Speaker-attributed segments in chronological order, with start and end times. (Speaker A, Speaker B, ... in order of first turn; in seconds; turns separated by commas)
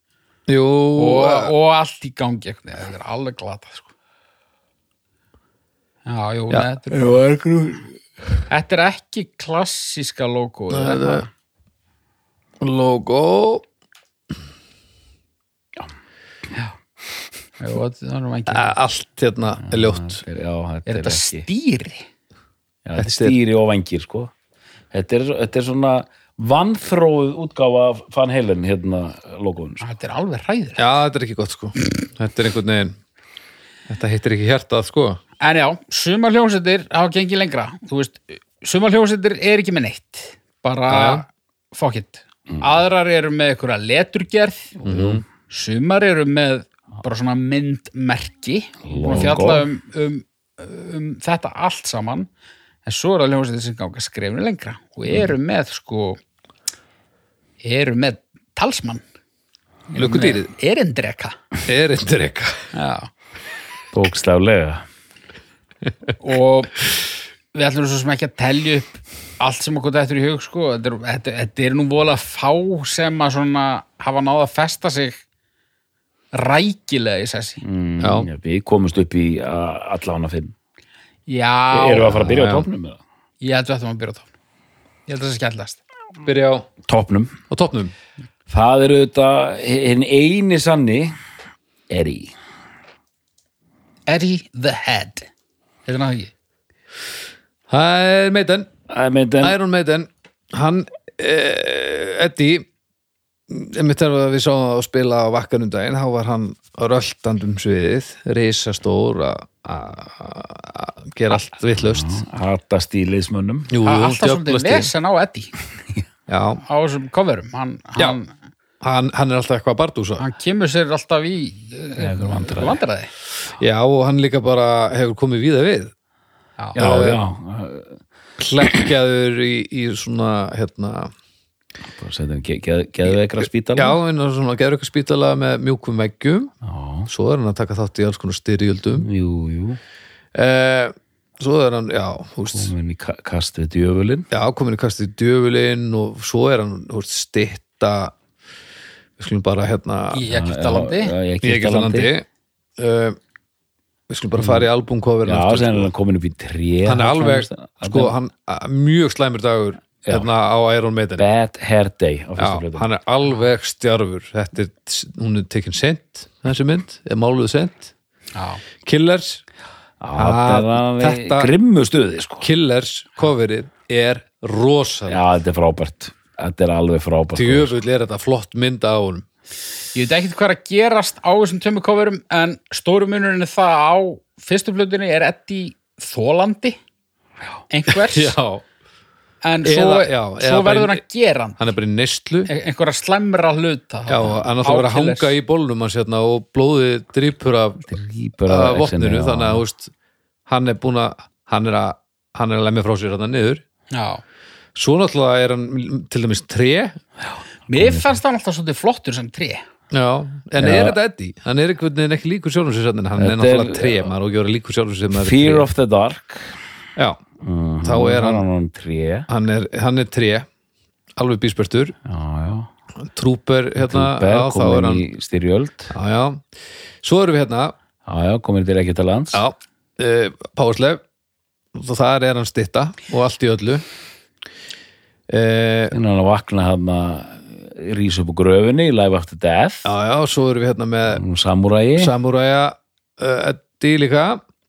Speaker A: 0.5-1.5, Speaker B: 0.9-3.9, Speaker B: 6.0-7.2, Speaker C: 7.1-7.4, Speaker B: 8.5-11.3, Speaker A: 10.7-11.2, Speaker A: 12.6-13.6, Speaker B: 17.6-18.7, Speaker A: 18.5-20.2, Speaker C: 19.6-21.4, Speaker B: 20.9-22.0, Speaker C: 22.9-24.3, Speaker A: 23.0-23.4, Speaker C: 24.9-29.8, Speaker B: 29.8-30.9, Speaker A: 30.8-33.0, Speaker A: 33.9-35.2, Speaker B: 35.4-44.8, Speaker A: 40.9-41.2, Speaker C: 44.8-45.2, Speaker A: 44.8-45.2, Speaker B: 45.5-52.3, Speaker C: 48.8-49.6, Speaker B: 52.8-56.2, Speaker B: 57.6-59.0, Speaker B: 59.9-61.4, Speaker A: 60.0-60.5, Speaker A: 61.6-62.6, Speaker B: 62.7-63.1, Speaker C: 63.9-64.8, Speaker B: 66.2-66.8, Speaker B: 67.5-75.2, Speaker B: 76.3-77.6, Speaker C: 77.6-80.5, Speaker A: 78.0-78.3, Speaker B: 81.3-82.4, Speaker C: 81.7-83.0, Speaker A: 82.2-82.7, Speaker B: 83.4-84.3, Speaker B: 85.1-85.8, Speaker A: 86.2-86.7, Speaker C: 86.8-87.4, Speaker A: 87.5-87.9, Speaker C: 88.5-91.1, Speaker C: 91.9-92.3, Speaker B: 94.1-95.3, Speaker B: 95.8-96.3, Speaker A: 97.7-98.7, Speaker C: 98.9-99.6, Speaker A: 99.4-102.7, Speaker A: 103.5-112.2, Speaker C: 111.8-113.7, Speaker A: 113.7-114.9, Speaker B: 113.8-115.5, Speaker A: 116.3-116.6, Speaker B: 116.6-118.3, Speaker A: 118.8-120.2, Speaker B: 120.2-123.1, Speaker C: 122.0-122.8, Speaker A: 123.6-125.9, Speaker A: 126.8-127.2, Speaker C: 126.8-128.0, Speaker A: 128.4-131.1, Speaker C: 131.9-134.0, Speaker A: 133.7-136.5, Speaker C: 136.6-137.1, Speaker A: 137.1-139.1, Speaker C: 138.9-139.8, Speaker A: 140.3-142.7, Speaker C: 142.5-144.3, Speaker A: 144.3-148.1, Speaker A: 149.2-150.3, Speaker B: 150.1-151.1, Speaker C: 150.3-152.1, Speaker A: 151.4-152.3, Speaker A: 152.8-153.2, Speaker A: 154.1-155.9, Speaker C: 154.4-154.7, Speaker C: 155.2-158.1, Speaker A: 156.8-161.2, Speaker C: 160.0-160.3, Speaker C: 161.2-162.9, Speaker A: 162.4-167.9, Speaker B: 168.3-168.6, Speaker A: 168.8-169.4, Speaker C: 170.0-172.5, Speaker A: 170.2-171.5, Speaker A: 172.4-175.2, Speaker C: 175.1-177.7, Speaker A: 177.3-179.2, Speaker B: 179.9-186.8, Speaker B: 187.7-188.3, Speaker A: 187.9-188.6, Speaker B: 189.4-191.6, Speaker A: 189.6-191.0, Speaker A: 191.6-192.5, Speaker B: 192.5-195.3, Speaker A: 194.1-197.9, Speaker C: 197.9-199.6, Speaker A: 198.4-199.9, Speaker A: 200.5-203.6, Speaker B: 203.9-204.2, Speaker A: 204.7-207.0, Speaker B: 207.7-209.6, Speaker C: 207.7-208.2, Speaker A: 209.9-215.7, Speaker C: 210.6-211.0, Speaker C: 213.2-214.1, Speaker C: 215.1-216.6, Speaker A: 216.9-217.2, Speaker C: 217.4-219.3, Speaker A: 217.8-218.4, Speaker A: 219.3-220.5, Speaker A: 221.2-221.9, Speaker C: 222.0-222.7, Speaker A: 223.0-225.0, Speaker C: 223.8-225.9, Speaker A: 225.9-226.4, Speaker A: 227.0-227.8, Speaker C: 228.0-229.4, Speaker A: 229.3-231.0, Speaker A: 231.7-233.8, Speaker A: 235.3-235.9, Speaker C: 235.9-239.9, Speaker A: 239.8-241.2, Speaker C: 241.1-242.1, Speaker A: 242.0-244.4